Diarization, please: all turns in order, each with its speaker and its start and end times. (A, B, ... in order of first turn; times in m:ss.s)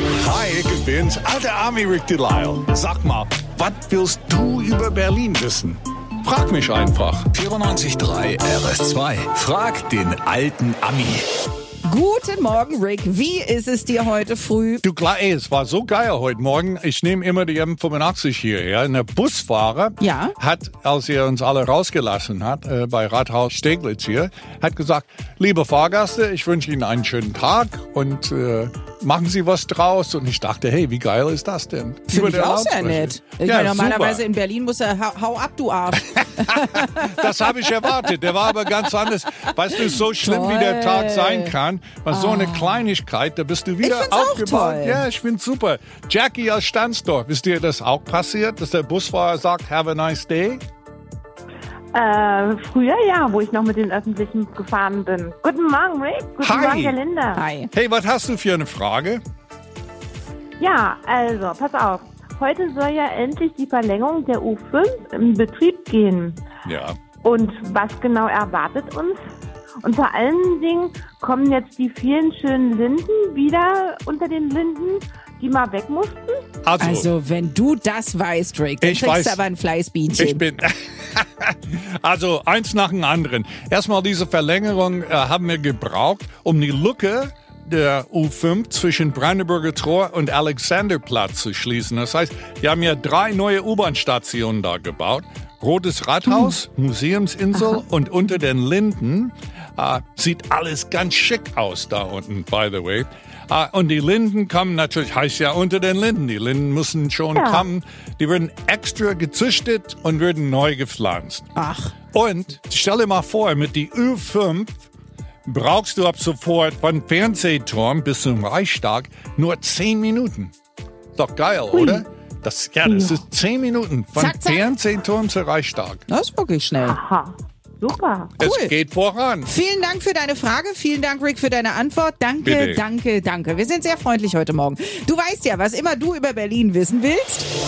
0:00.1-0:07.3 A
0:07.3-0:11.3 B
0:11.9-0:14.8 C
0:14.8-0:34.2 A
0:20.0-0:20.3 C
0:32.1-0:38.2 C
0:36.4-0:50.6 A
0:39.7-0:41.5 C
0:42.1-0:42.8 C
0:43.8-0:45.0 C
0:51.9-0:57.4 D
0:56.4-0:57.0 A
0:57.3-0:57.7 C
0:57.7-0:59.2 A
1:00.6-1:06.4 D
1:06.6-1:07.0 A
1:07.2-1:09.2 D
1:09.8-1:16.4 D
1:16.6-1:17.1 A
1:16.8-1:20.4 C
1:18.8-1:19.4 A
1:20.2-1:51.5 A
1:47.3-1:47.7 D
1:51.6-1:51.9 C
1:52.1-1:54.9 A
1:55.5-2:00.5 A
2:01.2-2:06.0 A
2:01.7-2:02.0 D
2:02.8-2:03.1 D
2:04.2-2:04.7 C
2:06.1-2:07.0 C
2:06.8-2:08.4 D
2:08.4-2:09.5 A
2:08.4-2:08.7 C
2:09.5-2:17.5 C
2:12.4-2:12.8 A